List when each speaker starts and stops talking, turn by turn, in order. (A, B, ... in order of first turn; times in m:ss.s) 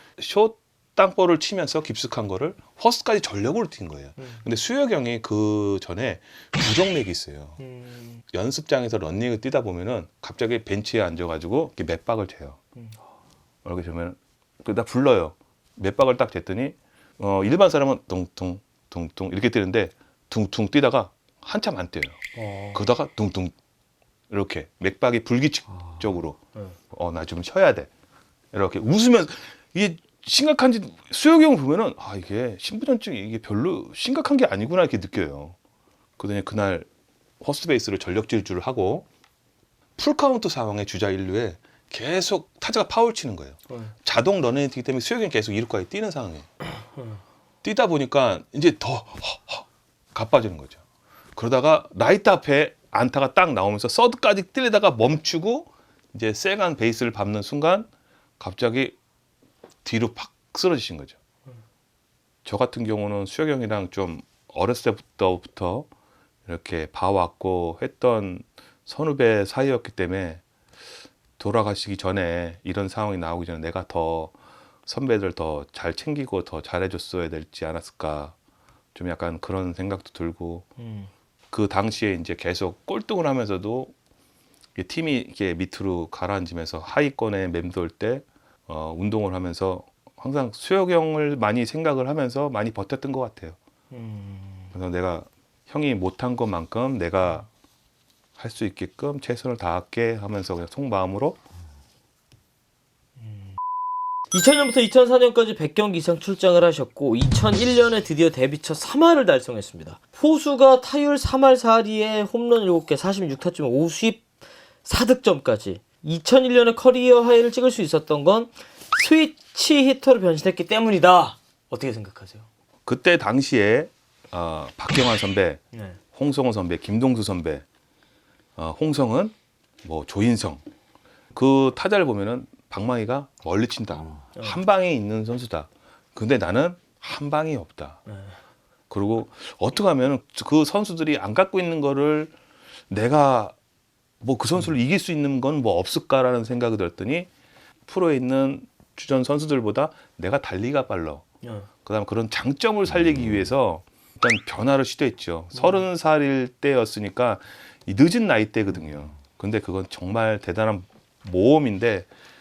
0:00.2-0:07.6 A
0:04.2-0:04.4 B
0:07.6-0:08.2 B
0:08.3-0:12.6 A
0:13.6-0:22.2 A
0:22.4-0:22.8 B
0:22.7-0:23.6 A
0:24.3-0:26.4 A
0:26.9-0:27.9 A
0:28.5-0:35.6 A
0:36.2-0:36.9 A
0:37.4-0:39.1 A
0:40.0-0:46.5 A
0:47.6-0:50.8 A
0:51.4-0:57.9 A
0:58.4-0:59.0 A
0:59.8-1:01.2 A
1:02.4-1:05.9 A
1:06.5-1:10.4 A
1:11.4-1:14.3 A
1:14.8-1:18.4 A
1:19.0-1:20.7 A
1:20.8-1:21.1 B
1:21.5-1:23.9 A
1:24.8-1:33.6 A
1:33.9-1:34.7 B
1:34.7-1:37.5 A
1:38.4-1:41.4 A
1:43.2-1:43.6 B
1:44.3-1:54.2 B
1:54.8-2:02.4 B
2:02.9-2:05.6 A
2:05.7-2:06.0 B
2:06.1-2:07.6 A
2:08.6-2:10.6 A
2:11.3-2:18.0 A
2:18.1-2:18.3 B
2:18.9-2:22.3 A
2:22.9-2:23.6 A
2:24.2-2:27.3 A
2:27.9-2:31.2 A
2:31.8-2:42.1 A
2:35.5-2:35.8 B